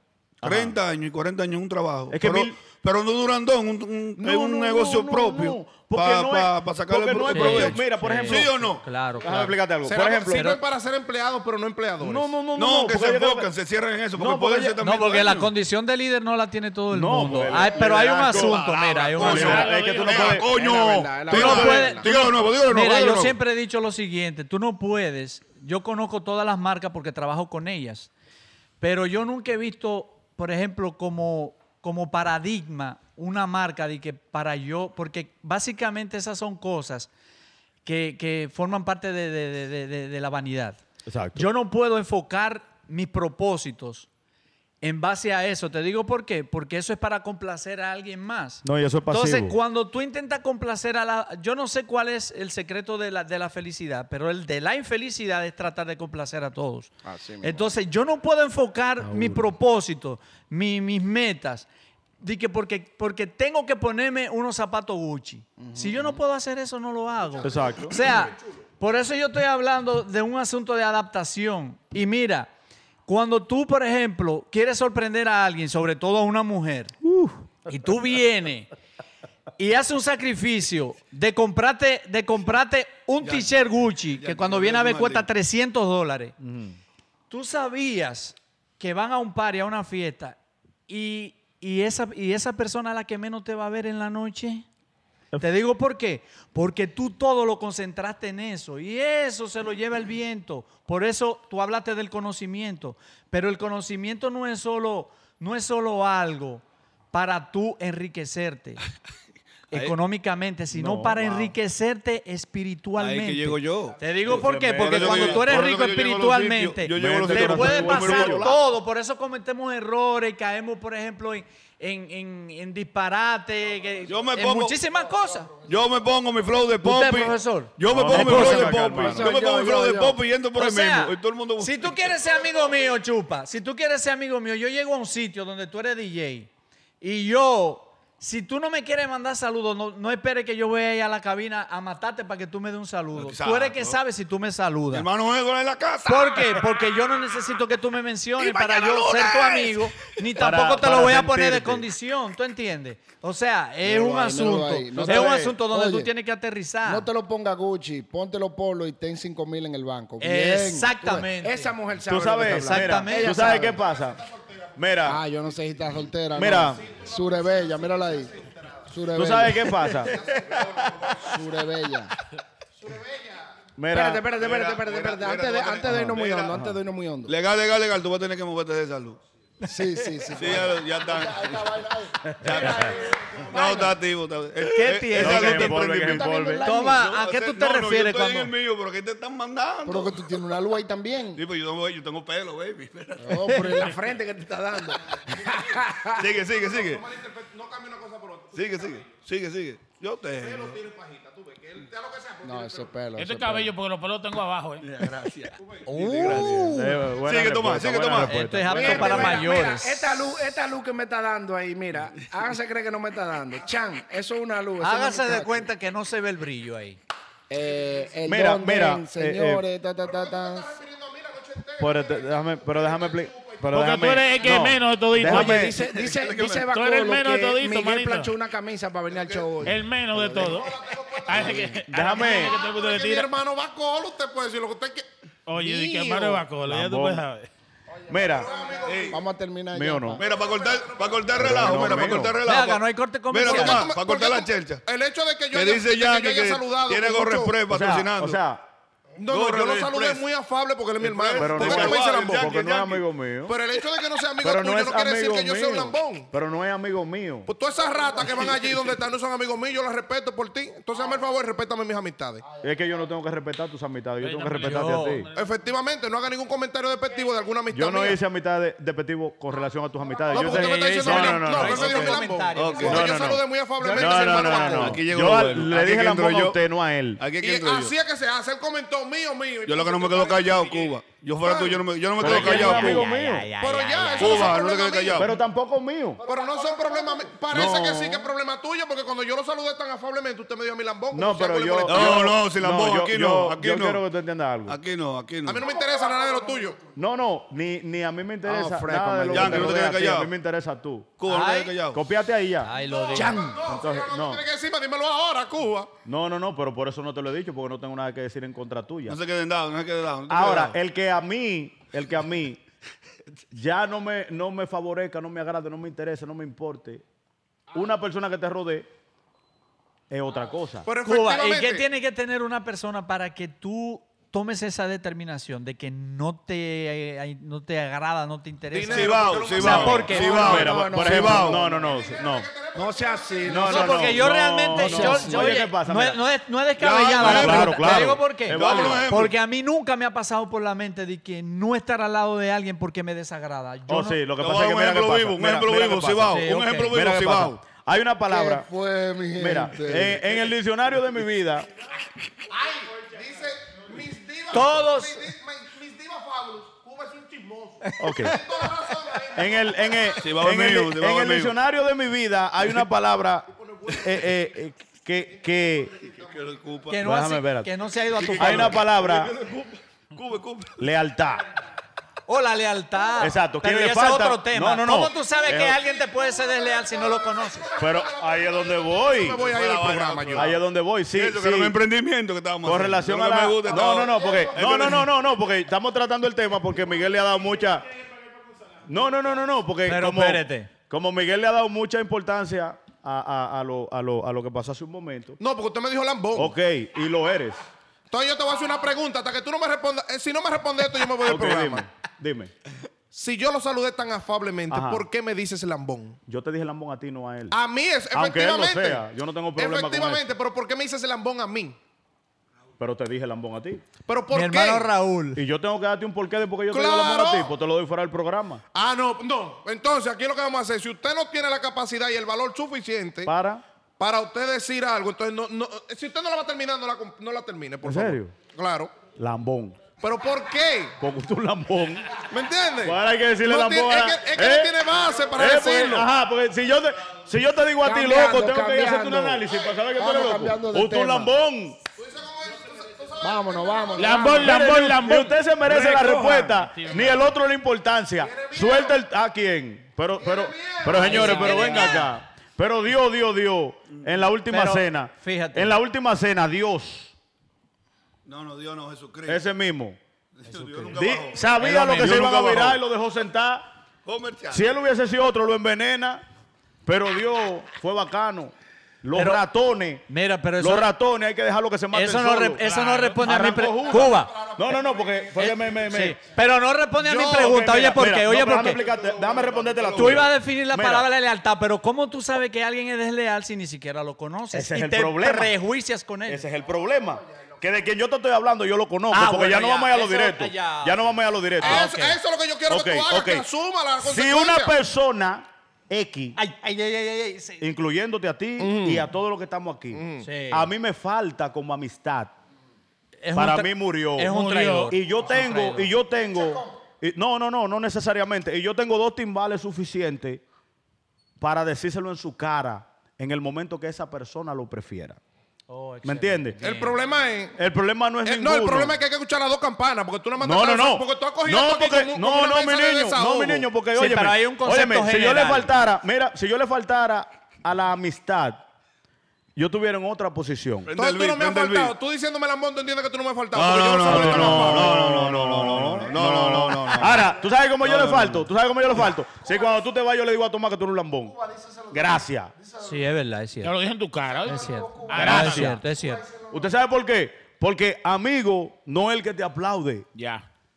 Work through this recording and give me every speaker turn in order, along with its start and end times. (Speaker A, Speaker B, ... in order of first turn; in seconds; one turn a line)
Speaker A: 0.4-0.8
Speaker B: 0.4-8.8
Speaker A: 2.1-2.6
Speaker A: 4.2-8.7
Speaker C: 7.3-9.6
Speaker A: 9.2-10.6
Speaker D: 9.8-12.3
Speaker C: 10.3-10.6
Speaker A: 12.0-13.5
Speaker B: 12.6-15.5
Speaker A: 14.2-14.8
Speaker C: 14.8-19.7
Speaker A: 16.9-18.6
Speaker B: 18.2-23.3
Speaker A: 19.2-20.5
Speaker E: 19.2-20.3
Speaker F: 20.5-22.1
Speaker C: 21.3-28.1
Speaker C: 28.8-37.1
Speaker C: 37.8-40.8
Speaker A: 41.1-41.5
Speaker C: 41.3-44.1
Speaker C: 44.8-61.7
Speaker A: 48.6-49.6
Speaker F: 57.0-57.7
Speaker A: 59.0-59.5
Speaker C: 62.2-72.5
Speaker F: 65.6-66.2
Speaker A: 67.4-68.0
Speaker C: 73.1-77.0
Speaker A: 77.0-77.4
Speaker C: 77.7-78.7
Speaker C: 79.6-86.3
Speaker B: 83.2-83.5
Speaker B: 84.0-85.3
Speaker A: 86.4-86.8
Speaker C: 87.3-90.4
Speaker C: 90.9-94.7
Speaker C: 95.4-108.8
Speaker C: 109.7-125.5
Speaker A: 110.7-111.5
Speaker B: 113.0-118.6
Speaker A: 114.3-115.6
Speaker A: 116.9-118.5
Speaker B: 124.1-124.8
Speaker B: 125.7-132.0
Speaker C: 126.8-128.6
Speaker A: 127.9-129.2
Speaker F: 128.2-130.2
Speaker D: 128.3-129.3
Speaker C: 130.6-136.5
Speaker C: 137.0-145.1
Speaker B: 143.2-144.0
Speaker B: 144.9-146.8
Speaker C: 146.1-157.1
Speaker B: 148.4-149.7
Speaker A: 150.4-151.9
Speaker F: 153.8-156.1
Speaker A: 154.9-155.6
Speaker F: 156.8-163.8
Speaker C: 160.2-161.8
Speaker A: 162.1-164.2
Speaker C: 162.4-163.5
Speaker D: 163.8-164.7
Speaker A: 164.8-165.2
Speaker F: 165.1-168.4
Speaker A: 166.3-166.8
Speaker D: 166.5-168.9
Speaker F: 168.9-169.9
Speaker A: 169.1-170.2
Speaker D: 169.9-171.4
Speaker F: 171.1-172.1
Speaker D: 172.8-173.6
Speaker A: 173.8-174.3
Speaker F: 173.9-177.3
Speaker B: 174.3-176.5
Speaker A: 175.9-176.8
Speaker B: 177.3-179.2
Speaker F: 179.6-183.8
Speaker B: 180.3-181.8
Speaker B: 182.4-186.3
Speaker D: 182.7-183.8
Speaker C: 184.6-185.7
Speaker A: 185.1-186.7
Speaker F: 185.5-187.0
Speaker C: 186.6-188.5
Speaker B: 186.9-190.3
Speaker F: 189.9-191.4
Speaker B: 191.3-193.6
Speaker F: 193.2-196.2
Speaker C: 193.5-193.9
Speaker B: 196.1-197.1
Speaker D: 196.5-199.1
Speaker B: 198.5-200.8
Speaker D: 200.4-203.0
Speaker F: 202.4-203.7
Speaker E: 203.2-204.9
Speaker B: 204.8-209.0
Speaker F: 205.9-207.0
Speaker C: 206.0-206.6
Speaker A: 206.3-209.5
Speaker C: 208.2-210.1
Speaker F: 208.7-215.7
Speaker C: 214.8-217.0
Speaker F: 217.5-220.7
Speaker A: 218.3-219.7
Speaker D: 220.0-223.7
Speaker A: 221.8-225.8
Speaker E: 223.7-225.8
Speaker F: 225.2-230.7
Speaker B: 225.6-226.7
Speaker E: 226.7-228.3
Speaker E: 229.6-230.7
Speaker D: 230.3-235.1
Speaker E: 231.3-233.3
Speaker F: 231.3-231.8
Speaker A: 231.9-232.6
Speaker E: 235.5-237.5
Speaker A: 236.7-237.2
Speaker A: 238.1-238.5
Speaker D: 238.1-239.2
Speaker F: 238.5-240.2
Speaker B: 238.9-239.2
Speaker A: 239.7-240.2
Speaker D: 240.2-242.3
Speaker B: 240.2-244.8
Speaker A: 241.4-242.4
Speaker C: 242.4-243.9
Speaker D: 243.4-247.6
Speaker B: 245.5-248.4
Speaker A: 247.7-248.7
Speaker D: 249.2-252.6
Speaker B: 249.3-250.2
Speaker B: 251.0-253.0
Speaker A: 251.4-253.6
Speaker D: 253.5-256.3
Speaker A: 254.4-257.5
Speaker D: 257.5-262.4
Speaker B: 258.3-258.9
Speaker A: 262.6-265.3
Speaker E: 264.2-265.4
Speaker C: 264.6-265.3
Speaker D: 265.3-268.2
Speaker A: 267.7-272.2
Speaker D: 270.3-275.0
Speaker C: 270.3-273.1
Speaker B: 272.5-273.1
Speaker A: 272.8-277.2
Speaker B: 274.0-276.6
Speaker B: 277.2-277.9
Speaker D: 277.4-283.1
Speaker B: 279.7-283.1
Speaker A: 282.2-283.5
Speaker C: 282.8-284.5
Speaker D: 283.6-285.3
Speaker B: 284.2-285.3
Speaker A: 285.1-286.2
Speaker D: 286.2-292.3
Speaker F: 286.3-287.2
Speaker A: 287.5-288.3
Speaker A: 291.1-294.8
Speaker B: 291.9-294.0
Speaker B: 294.7-295.6
Speaker D: 295.5-296.8
Speaker A: 297.0-301.1
Speaker F: 298.4-299.8
Speaker B: 299.3-300.3
Speaker B: 301.2-302.0
Speaker C: 301.3-301.7
Speaker A: 301.9-302.7
Speaker C: 302.6-303.4
Speaker D: 303.0-305.9
Speaker F: 303.1-303.7
Speaker A: 303.6-304.4
Speaker A: 306.1-309.2
Speaker B: 309.1-310.8
Speaker A: 310.3-312.6
Speaker A: 313.5-317.0
Speaker A: 317.7-318.9
Speaker A: 320.1-320.9
Speaker D: 320.9-321.9
Speaker C: 321.1-330.7
Speaker D: 328.7-330.4
Speaker B: 328.9-331.6
Speaker F: 330.1-331.9
Speaker A: 330.2-332.5
Speaker D: 331.5-334.1
Speaker F: 332.8-334.0
Speaker A: 333.4-336.2
Speaker C: 333.7-344.2
Speaker F: 334.8-335.2
Speaker B: 336.8-339.4
Speaker A: 337.2-339.2
Speaker A: 343.9-348.7
Speaker B: 344.4-347.6
Speaker C: 346.3-346.9
Speaker F: 348.3-350.2
Speaker A: 349.4-351.7
Speaker D: 352.5-360.3
Speaker C: 354.5-355.3
Speaker C: 358.0-358.4
Speaker A: 358.0-358.4
Speaker A: 359.4-365.9
Speaker B: 360.2-361.5
Speaker D: 363.6-364.4
Speaker D: 365.4-366.6
Speaker B: 366.2-367.0
Speaker C: 366.9-368.8
Speaker A: 367.0-367.7
Speaker B: 368.1-370.8
Speaker A: 368.4-369.3
Speaker A: 370.8-371.4
Speaker C: 372.3-377.7
Speaker A: 373.2-375.8
Speaker D: 375.5-380.5
Speaker A: 377.8-379.4
Speaker B: 379.3-380.6
Speaker A: 380.4-381.8
Speaker B: 381.1-385.0
Speaker A: 382.6-387.9
Speaker D: 383.7-385.1
Speaker A: 388.9-395.4
Speaker C: 389.9-390.7
Speaker D: 395.4-396.5
Speaker A: 396.4-397.6
Speaker D: 398.1-401.9
Speaker A: 401.2-402.5
Speaker D: 403.1-406.2
Speaker A: 404.7-405.1
Speaker A: 406.3-407.6
Speaker D: 407.5-409.1
Speaker A: 408.1-410.3
Speaker D: 409.6-411.8
Speaker A: 412.8-413.8
Speaker D: 414.1-414.9
Speaker C: 414.3-415.4
Speaker A: 415.4-418.6
Speaker D: 416.7-417.5
Speaker D: 418.7-423.3
Speaker A: 423.2-423.6
Speaker D: 424.0-428.9
Speaker A: 427.8-428.3
Speaker A: 429.2-429.8
Speaker D: 430.0-431.0
Speaker A: 431.0-432.2
Speaker D: 432.2-436.1
Speaker A: 432.8-434.8
Speaker A: 435.3-441.8
Speaker F: 437.8-439.4
Speaker D: 439.5-439.8
Speaker F: 439.9-441.3
Speaker D: 441.9-444.4
Speaker F: 443.2-444.6
Speaker E: 444.0-447.2
Speaker A: 444.4-457.1
Speaker D: 448.2-449.0
Speaker D: 450.2-452.1
Speaker C: 451.0-452.1
Speaker C: 454.5-455.8
Speaker B: 458.3-459.4
Speaker A: 459.3-460.0
Speaker B: 460.4-462.8
Speaker C: 460.5-462.6
Speaker A: 460.9-463.7
Speaker B: 464.1-464.7
Speaker A: 464.5-466.2
Speaker A: 466.9-470.1
Speaker C: 469.2-469.4
Speaker C: 470.1-470.9
Speaker A: 470.6-472.6
Speaker C: 471.9-474.4
Speaker E: 472.6-473.2
Speaker A: 473.2-476.2
Speaker D: 473.4-475.7
Speaker C: 475.4-478.8
Speaker A: 477.1-481.1
Speaker D: 477.1-477.5
Speaker B: 478.5-480.3
Speaker C: 479.9-486.4
Speaker A: 484.5-485.5
Speaker A: 486.3-491.9
Speaker C: 489.1-491.0
Speaker C: 491.6-492.1
Speaker D: 491.6-494.8
Speaker A: 492.7-493.4
Speaker A: 494.0-496.4
Speaker C: 496.4-497.6
Speaker A: 497.6-502.3
Speaker D: 498.6-499.1
Speaker D: 499.9-500.3
Speaker C: 500.2-500.7
Speaker C: 503.2-505.9
Speaker A: 503.4-504.4
Speaker E: 504.3-504.9
Speaker A: 504.9-510.4
Speaker A: 511.4-515.2
Speaker C: 515.7-517.0
Speaker A: 516.0-516.6
Speaker D: 516.6-517.6
Speaker A: 517.6-519.0
Speaker D: 518.2-523.7
Speaker A: 520.4-528.6
Speaker C: 524.0-525.7
Speaker A: 529.6-530.9
Speaker B: 530.9-531.9
Speaker D: 531.0-535.1
Speaker B: 533.5-537.3
Speaker A: 534.0-541.4
Speaker B: 537.8-538.4
Speaker F: 541.5-541.9
Speaker A: 541.9-542.5
Speaker C: 542.8-543.8
Speaker E: 543.6-545.8
Speaker C: 544.5-546.2
Speaker F: 544.7-546.5
Speaker A: 545.1-545.8
Speaker A: 546.5-550.1
Speaker E: 550.2-550.4